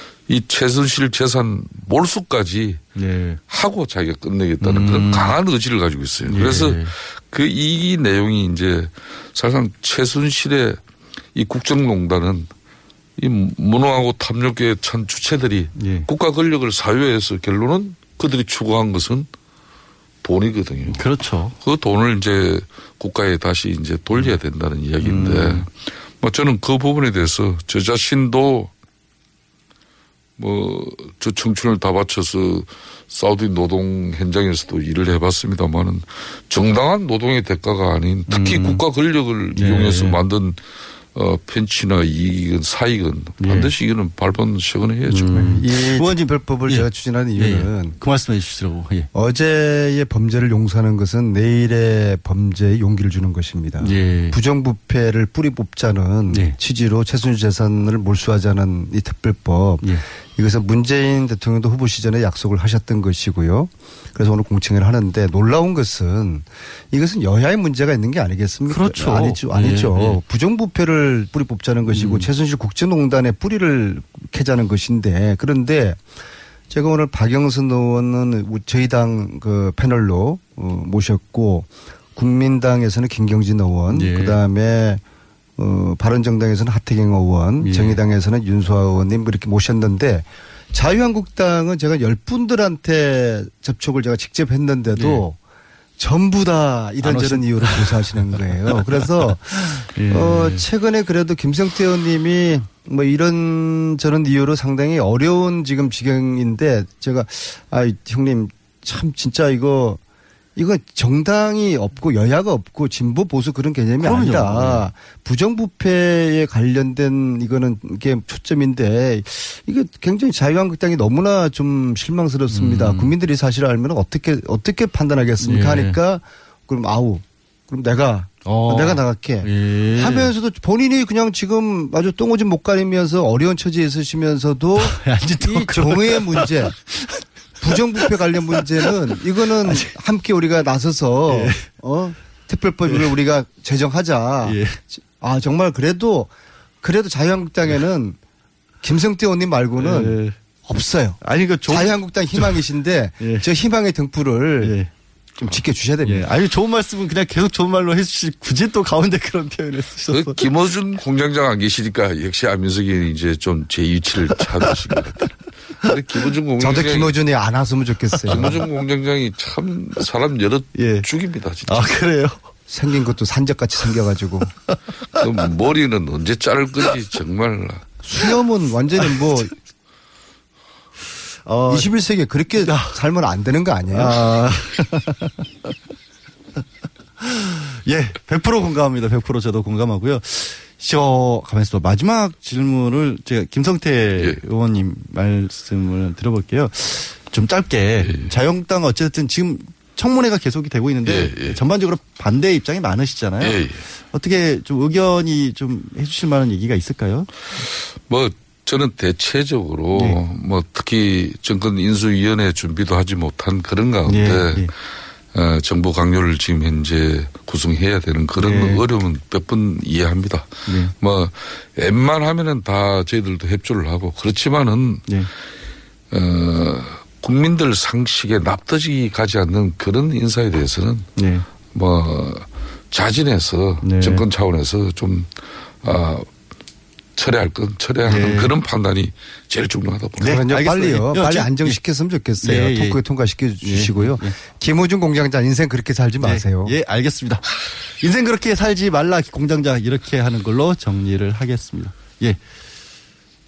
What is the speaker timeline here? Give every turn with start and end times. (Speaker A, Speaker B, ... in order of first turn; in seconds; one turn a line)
Speaker A: 0.3-2.8
Speaker B: 3.0-3.4
Speaker A: 3.5-10.8
Speaker B: 4.6-5.4
Speaker B: 6.3-6.9
Speaker A: 11.3-12.5
Speaker A: 13.2-19.3
Speaker B: 15.8-16.1
Speaker A: 20.2-21.1
Speaker B: 20.9-21.6
Speaker A: 21.6-28.7
Speaker B: 25.0-25.7
Speaker A: 30.4-40.6
Speaker B: 38.3-38.8
Speaker B: 39.5-40.2
Speaker A: 41.1-45.5
Speaker B: 43.4-43.7
Speaker B: 45.1-49.1
Speaker C: 45.4-48.0
Speaker C: 49.1-76.0
Speaker B: 53.8-54.4
Speaker B: 56.3-56.6
Speaker B: 68.7-70.2
Speaker B: 71.9-72.3
Speaker C: 76.7-85.0
Speaker B: 83.9-84.4
Speaker C: 85.6-95.4
Speaker B: 87.6-88.0
Speaker B: 94.9-95.2
Speaker C: 96.0-110.0
Speaker B: 97.0-100.7
Speaker C: 110.6-136.8
Speaker B: 114.0-114.9
Speaker B: 122.5-123.2
Speaker B: 125.4-126.0
Speaker B: 128.4-130.3
Speaker B: 134.8-139.9
Speaker C: 137.6-144.6
Speaker B: 141.3-141.7
Speaker B: 142.9-143.1
Speaker B: 144.4-144.8
Speaker C: 145.2-146.3
Speaker C: 146.8-148.2
Speaker C: 148.8-154.8
Speaker B: 149.8-150.3
Speaker B: 151.2-152.7
Speaker B: 153.2-153.5
Speaker B: 154.6-154.9
Speaker C: 155.4-156.2
Speaker B: 155.4-160.4
Speaker A: 160.1-167.2
Speaker B: 164.3-164.9
Speaker C: 166.6-168.6
Speaker B: 168.1-168.6
Speaker A: 168.3-172.0
Speaker B: 170.8-171.1
Speaker B: 171.7-172.4
Speaker C: 172.7-174.5
Speaker A: 175.2-177.9
Speaker C: 178.0-179.5
Speaker B: 179.1-179.5
Speaker B: 181.4-181.9
Speaker C: 181.7-184.2
Speaker B: 182.6-183.0
Speaker B: 183.9-185.7
Speaker B: 187.2-207.3
Speaker A: 198.0-198.3
Speaker A: 201.1-201.6
Speaker A: 203.4-203.8
Speaker A: 207.6-214.7
Speaker B: 214.1-214.7
Speaker A: 215.3-225.1
Speaker B: 218.4-218.8
Speaker B: 220.7-220.9
Speaker A: 226.1-231.1
Speaker B: 231.2-231.5
Speaker A: 231.7-236.3
Speaker B: 233.8-234.3
Speaker A: 237.2-240.4
Speaker B: 238.0-238.5
Speaker B: 240.2-241.8
Speaker C: 240.2-246.7
Speaker B: 242.4-243.0
Speaker B: 243.6-244.4
Speaker B: 246.2-252.4